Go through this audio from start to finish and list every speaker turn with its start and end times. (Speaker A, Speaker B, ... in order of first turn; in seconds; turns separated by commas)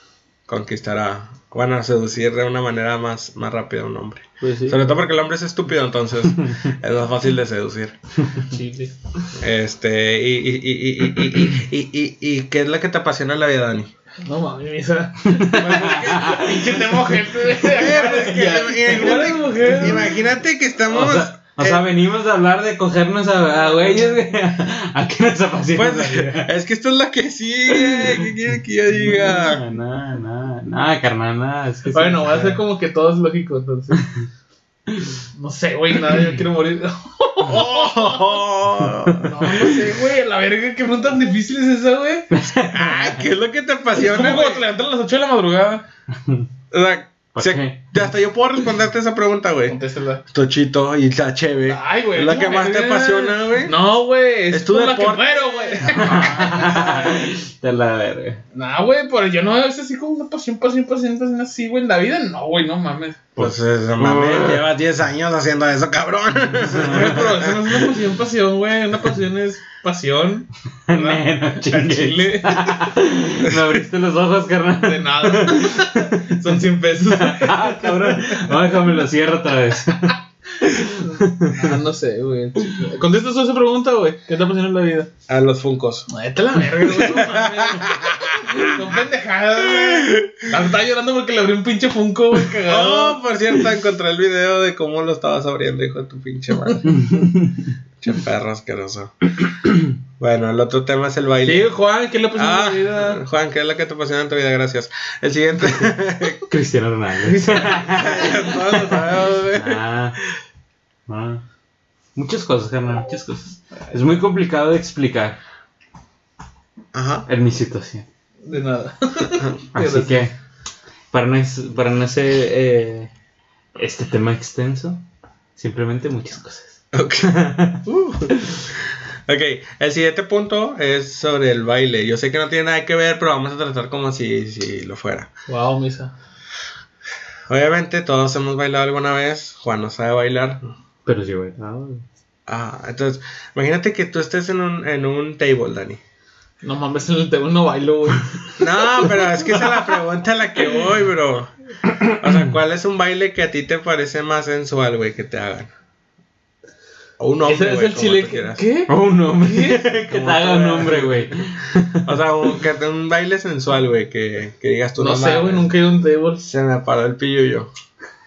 Speaker A: 0.5-8.0, Speaker B: 4.4-4.9, Speaker B: 6.4-6.7, Speaker C: 8.4-8.9, Speaker A: 9.4-13.9, Speaker C: 14.2-20.2, Speaker B: 15.3-16.9, Speaker A: 15.6-16.5, Speaker A: 17.6-21.8, Speaker B: 20.9-26.5, Speaker A: 25.7-29.6, Speaker B: 27.7-28.3, Speaker B: 28.9-32.6, Speaker C: 31.9-34.0, Speaker B: 34.9-35.2, Speaker C: 35.3-38.4, Speaker A: 37.4-39.6, Speaker B: 38.8-39.5, Speaker C: 39.2-42.3, Speaker B: 42.3-43.2, Speaker A: 42.6-44.6, Speaker C: 43.9-45.8, Speaker B: 46.1-46.5, Speaker A: 46.7-49.8, Speaker B: 47.3-47.9, Speaker C: 49.7-50.2, Speaker A: 50.3-53.8, Speaker C: 51.6-57.0, Speaker A: 54.5-57.2, Speaker B: 55.9-58.4, Speaker C: 58.5-63.3, Speaker B: 63.4-64.6, Speaker A: 63.4-67.8, Speaker C: 66.7-72.9, Speaker B: 70.9-76.4, Speaker C: 74.8-78.5, Speaker B: 77.1-81.7, Speaker C: 80.9-85.1, Speaker A: 85.3-86.1, Speaker C: 86.1-93.2, Speaker A: 86.8-88.9, Speaker A: 89.7-90.5, Speaker A: 92.7-97.0, Speaker B: 96.9-97.7, Speaker A: 98.0-99.2, Speaker A: 100.2-101.7, Speaker C: 101.4-103.2, Speaker A: 102.3-106.4, Speaker B: 106.5-110.2, Speaker A: 107.7-110.3, Speaker B: 111.1-111.4, Speaker B: 112.1-115.4, Speaker A: 116.9-117.3, Speaker B: 117.3-118.0, Speaker C: 118.4-120.2, Speaker B: 119.7-120.3, Speaker B: 121.1-123.1, Speaker B: 123.8-125.0, Speaker B: 125.5-128.6, Speaker A: 126.9-135.3, Speaker C: 135.5-136.1, Speaker A: 137.5-140.6, Speaker B: 141.1-142.0, Speaker A: 142.5-146.0, Speaker C: 146.6-149.7, Speaker A: 148.6-151.5, Speaker A: 152.1-155.7, Speaker A: 157.2-158.6, Speaker C: 157.4-159.8, Speaker B: 158.9-162.1, Speaker A: 159.8-161.4, Speaker A: 162.0-165.7, Speaker C: 165.0-166.4, Speaker A: 166.4-167.7